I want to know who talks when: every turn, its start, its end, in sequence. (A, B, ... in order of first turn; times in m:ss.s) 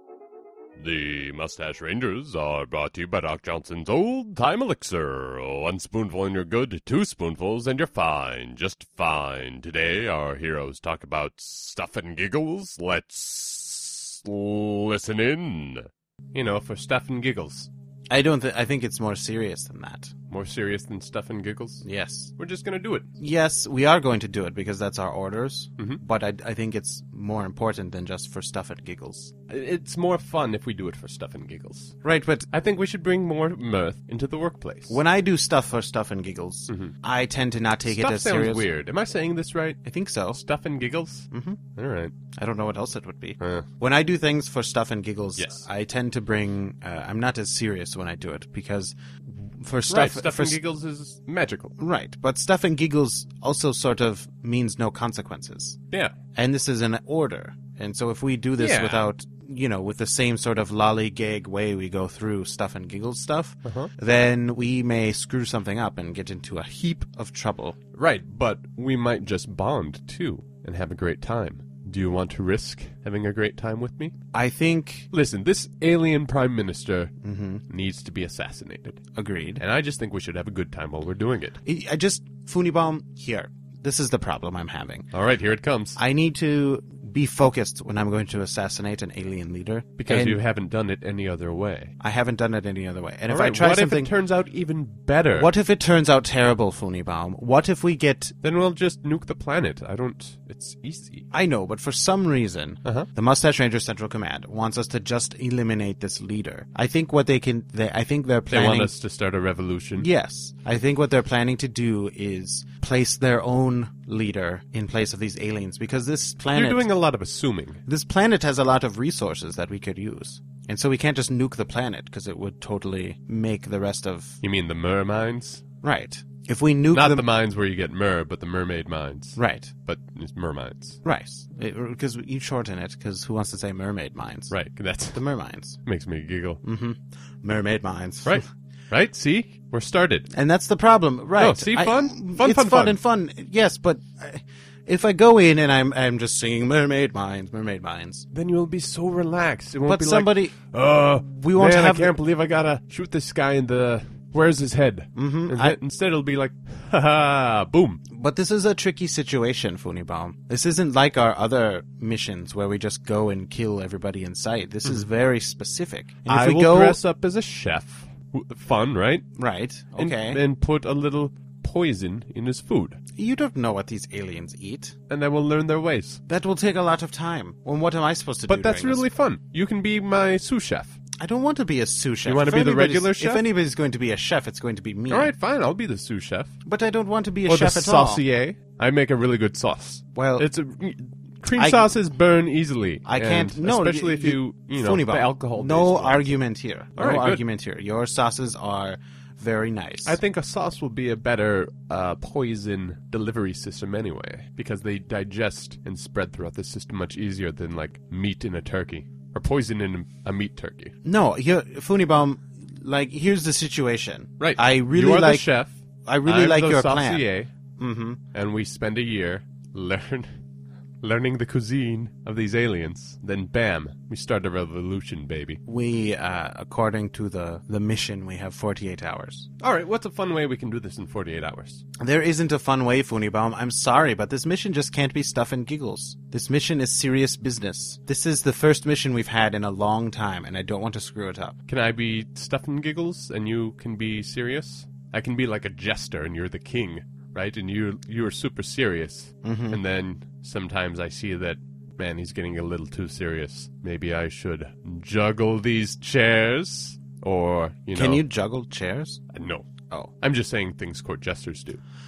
0:00.8-0:17.7 A
0:18.1-0:20.1 B
0:20.3-0:21.8 A
0:21.8-0:22.3 B
0:22.4-0:23.1 A
0:23.2-0:29.3 B
0:29.5-0:32.0 A
0:32.0-0:32.5 B
0:32.5-0:35.0 A
0:34.9-0:38.7 B
0:36.7-0:36.9 A
0:37.8-0:39.8 A
0:39.8-0:40.4 B
0:40.3-0:42.1 A
0:41.3-0:41.6 B
0:42.3-0:50.6 B
0:43.4-0:43.7 A
0:45.4-0:45.6 A
0:49.9-0:51.7 A
0:51.8-0:55.8 B
0:56.3-1:07.8 B
0:58.6-0:59.1 A
1:03.6-1:03.9 A
1:08.0-1:14.1 A
1:14.3-1:15.1 B
1:15.1-1:17.1 A
1:17.2-1:17.6 B
1:17.7-1:19.0 A
1:19.1-1:19.6 B
1:19.6-1:21.6 A
1:21.6-1:25.1 B
1:25.1-1:26.0 A
1:26.0-1:30.4 B
1:30.0-1:31.9 A
1:32.0-1:34.1 B
1:33.3-1:35.5 A
1:35.3-1:38.3 B
1:38.4-1:41.2 A
1:41.3-1:48.9 B
1:48.5-1:50.1 A
1:50.0-1:56.9 B
1:56.5-1:57.8 A
1:57.8-2:04.4 B
2:04.4-2:05.6 A
2:05.8-2:07.3 B
2:06.9-2:11.0 A
2:09.4-2:09.7 B
2:11.0-2:14.6 B
2:14.5-2:15.2 A
2:15.1-2:15.8 B
2:15.8-2:16.6 A
2:16.6-2:18.4 B
2:18.2-2:20.3 A
2:20.3-2:28.2 B
2:21.4-2:23.0 A
2:28.3-2:38.0 A
2:29.8-2:30.6 B
2:31.2-2:32.1 B
2:35.1-2:35.8 B
2:38.1-2:47.0 B
2:46.3-2:49.2 A
2:49.4-2:50.4 B
2:50.0-2:53.0 A
2:53.2-2:54.9 B
2:55.1-2:56.2 A
2:56.3-2:59.0 B
2:58.5-3:01.0 A
3:01.2-3:05.3 B
3:02.2-3:03.4 A
3:05.1-3:06.5 A
3:06.6-3:08.2 B
3:07.5-3:16.4 A
3:10.1-3:10.5 B
3:11.5-3:12.0 B
3:13.0-3:20.2 B
3:17.0-3:17.4 A
3:20.0-3:30.9 A
3:31.0-3:35.5 B
3:34.4-3:37.5 A
3:36.0-3:37.3 B
3:37.8-3:38.2 B
3:38.3-3:40.3 A
3:41.0-3:45.6 A
3:45.7-3:49.5 B
3:49.6-3:51.8 A
3:52.0-4:01.6 B
4:01.7-4:18.2 A
4:09.4-4:09.8 B
4:17.9-4:19.2 B
4:19.3-4:19.7 A
4:20.2-4:21.8 A